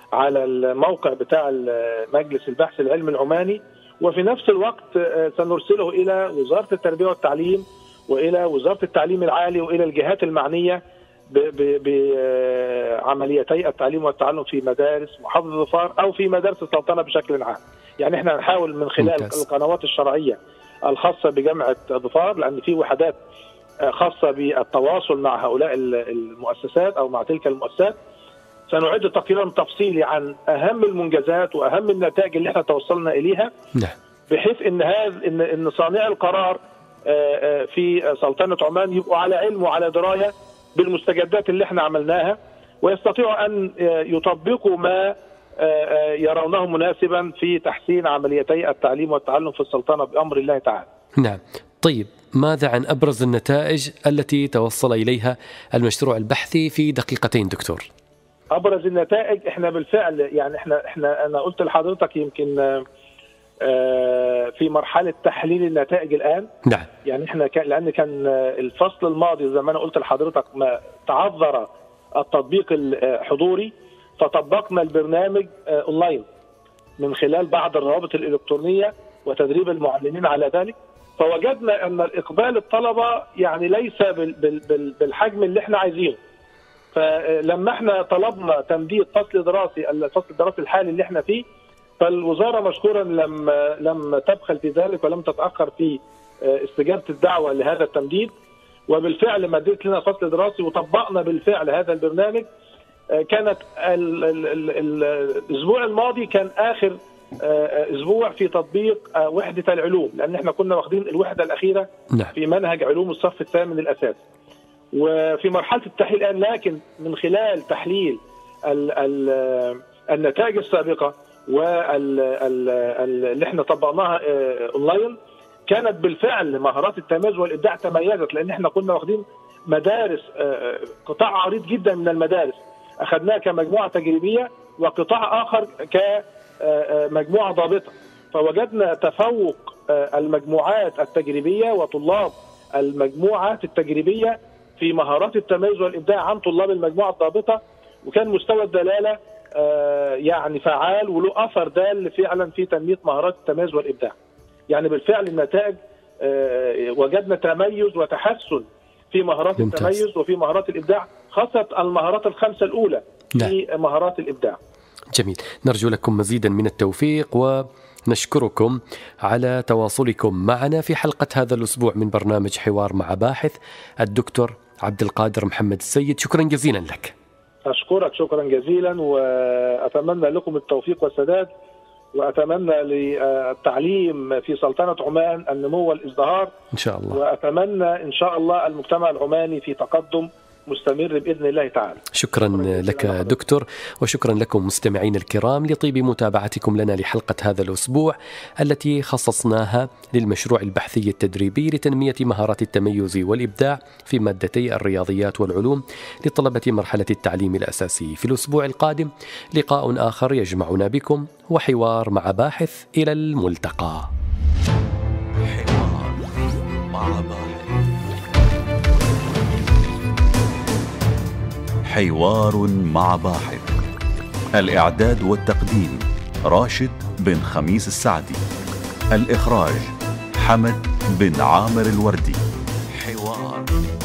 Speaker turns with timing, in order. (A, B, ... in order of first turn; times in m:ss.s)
0:00.2-0:23.2 A
0:19.0-0:19.4 B
0:23.8-0:28.0 A
0:28.7-0:33.5 A
0:34.3-0:50.9 A
0:51.2-0:57.9 B
0:58.5-1:02.8 A
1:03.6-1:06.5 A
1:07.0-1:16.2 A
1:17.0-1:26.2 A
1:26.9-1:31.4 A
1:32.0-1:38.3 A
1:38.9-1:42.5 A
1:43.1-1:54.2 A
1:54.9-2:05.2 A
2:05.7-2:34.1 A
2:34.7-2:44.6 A
2:39.6-2:40.0 B
2:45.1-2:57.1 B
2:57.6-3:01.5 A
3:02.1-3:06.5 A
3:06.7-3:07.2 B
3:07.1-3:13.4 A
3:12.2-3:34.1 B
3:35.5-3:36.3 C
3:36.9-3:37.7 C
3:41.9-3:43.7 C
3:44.6-3:48.4 C
3:49.1-3:52.4 C
3:53.0-3:53.7 C